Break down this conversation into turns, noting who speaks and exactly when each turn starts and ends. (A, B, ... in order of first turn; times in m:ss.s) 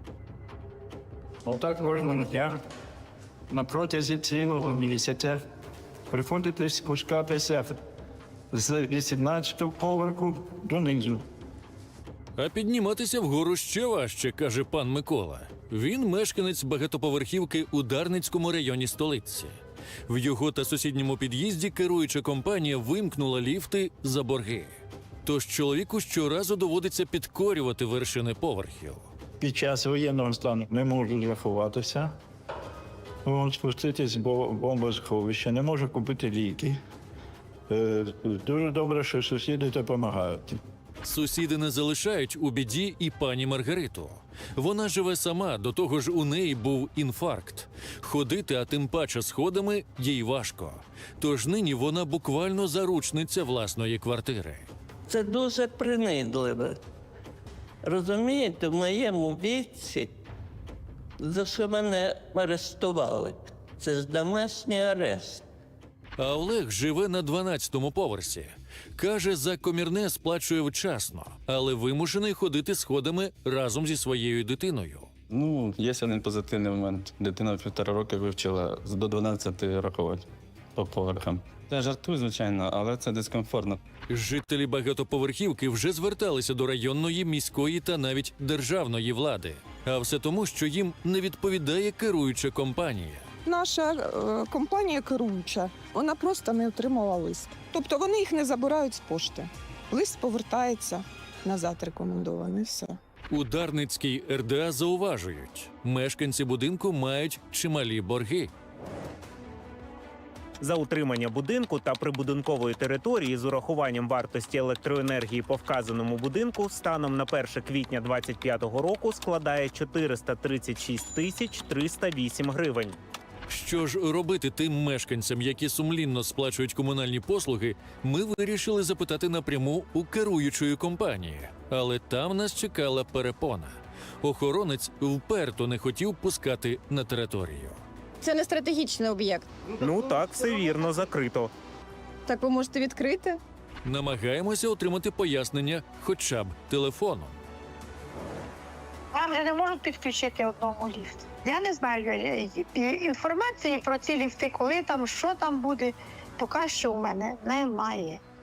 0:01.4-0:02.6 A
0:03.5-0:05.4 A
0:06.1-0:07.8 A
0:08.5-0:11.2 A
0:12.4-0:19.6 B
0:20.1-0:29.0 B
0:29.4-0:32.1 A
0:33.2-0:36.8 A
0:37.7-0:40.6 A
0:41.0-0:54.6 B
0:55.1-0:56.8 C
0:57.8-1:00.1 C
1:01.2-1:05.4 C
1:06.2-1:15.1 B
1:15.3-1:23.8 D
1:24.1-1:33.2 B
1:33.4-1:43.0 E
1:43.3-1:48.5 B
1:50.6-2:03.0 F
2:03.5-2:17.8 B
2:18.2-2:19.5 G
2:19.8-2:21.5 F
2:22.3-2:23.4 G
2:23.8-2:27.4 B
2:29.2-2:38.2 H